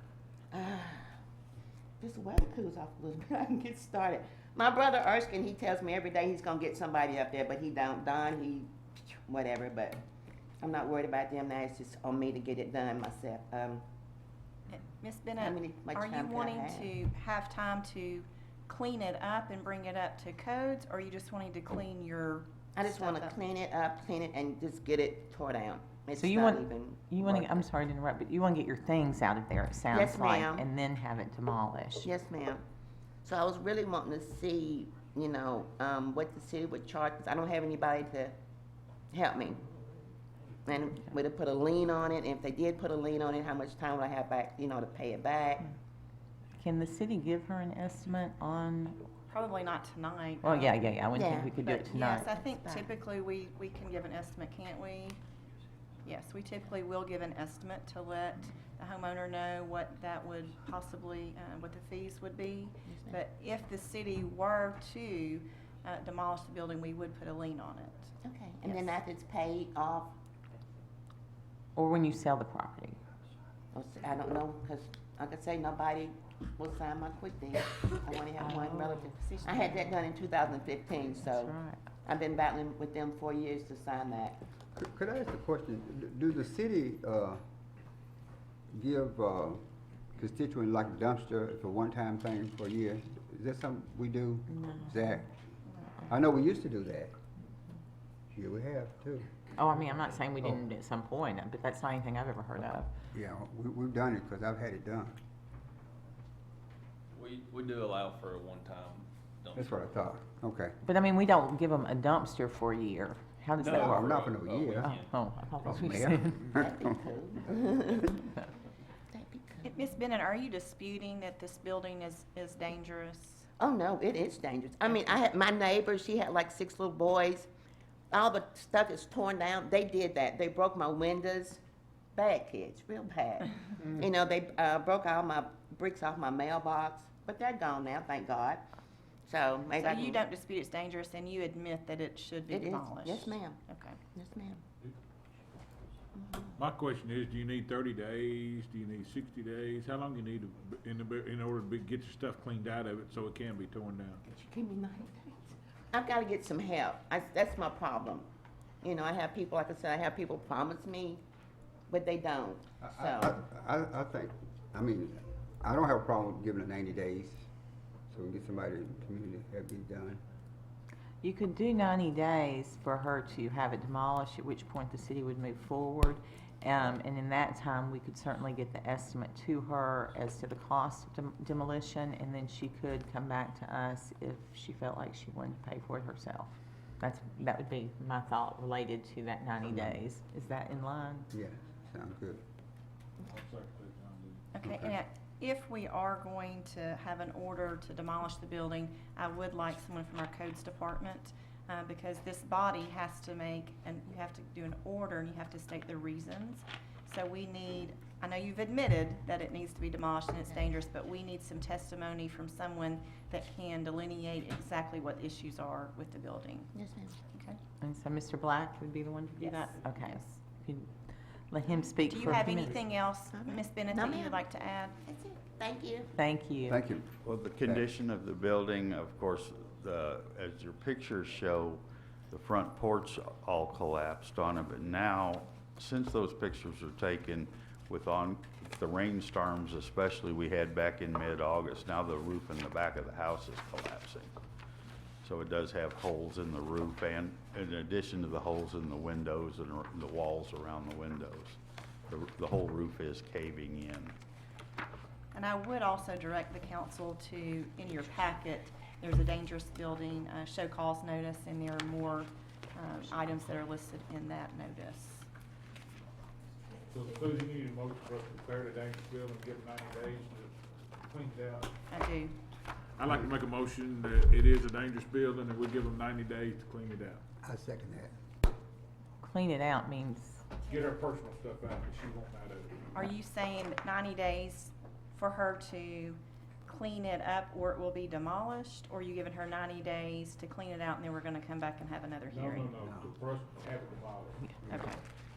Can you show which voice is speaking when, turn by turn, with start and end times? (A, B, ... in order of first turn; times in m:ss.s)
0:00.5-0:01.0 A
0:02.0-0:10.0 A
0:10.6-0:13.8 A
0:14.7-0:23.4 B
0:15.4-0:16.9 A
0:22.8-0:27.6 A
0:26.1-0:32.1 C
0:29.9-0:30.6 A
0:32.0-0:32.6 A
0:33.2-0:38.3 A
0:39.1-0:39.6 A
0:40.6-0:45.7 A
0:46.6-0:49.0 C
0:49.3-0:50.8 B
0:50.4-0:52.3 C
0:51.1-0:52.8 A
0:51.6-0:55.2 B
0:56.0-1:08.1 B
1:02.9-1:03.2 A
1:08.2-1:10.1 A
1:11.8-1:13.0 C
1:13.7-1:24.4 A
1:18.4-1:20.0 C
1:21.2-1:21.8 C
1:24.8-1:27.4 D
1:28.7-1:29.6 D
1:30.2-1:35.3 D
1:34.5-1:35.2 C
1:36.1-1:37.1 D
1:38.3-1:39.3 D
1:39.6-1:42.9 C
1:43.1-1:45.2 D
1:47.1-1:49.8 E
1:49.6-1:50.7 D
1:50.8-1:53.9 C
1:53.6-1:55.1 E
1:53.6-1:55.0 D
1:54.7-1:56.5 C
1:55.6-1:56.8 D
1:56.5-1:58.3 A
1:59.1-1:59.7 A
1:59.6-2:03.5 B
2:03.6-2:07.5 A
2:08.1-2:11.6 A
2:12.1-2:18.6 A
2:19.3-2:20.2 A
2:19.8-2:24.0 B
2:22.5-2:23.6 A
2:24.1-2:24.6 A
2:26.2-2:26.6 A
2:26.6-2:34.2 F
2:34.2-2:38.3 A
2:38.8-2:41.2 A
2:41.9-2:43.3 A
2:42.8-2:47.4 D
2:48.1-2:50.2 D
2:51.2-3:11.3 C
3:11.3-3:12.4 D
3:13.3-3:14.4 F
3:14.5-3:36.7 B
3:14.6-3:15.0 D
3:36.7-3:37.2 A
3:37.3-3:37.6 B
3:37.8-3:40.9 C
3:39.4-3:40.2 B
3:41.5-3:42.8 C
3:42.0-3:45.0 B
3:43.3-3:44.4 A
3:45.0-3:46.1 A
3:46.2-3:46.8 C
3:46.7-3:47.1 D
3:47.2-4:04.3 G
3:47.6-3:47.9 D
4:05.2-4:11.6 G
4:12.1-4:14.1 G
4:15.3-4:25.3 B
4:26.9-4:30.5 F
4:31.1-4:31.7 F
4:31.9-4:32.3 B
4:33.0-4:37.2 F
4:37.4-4:38.1 D
4:39.2-4:40.5 C
4:40.7-4:42.7 F
4:42.9-4:52.8 B
4:52.3-4:54.4 F
4:52.8-4:53.1 D
4:54.7-4:55.0 B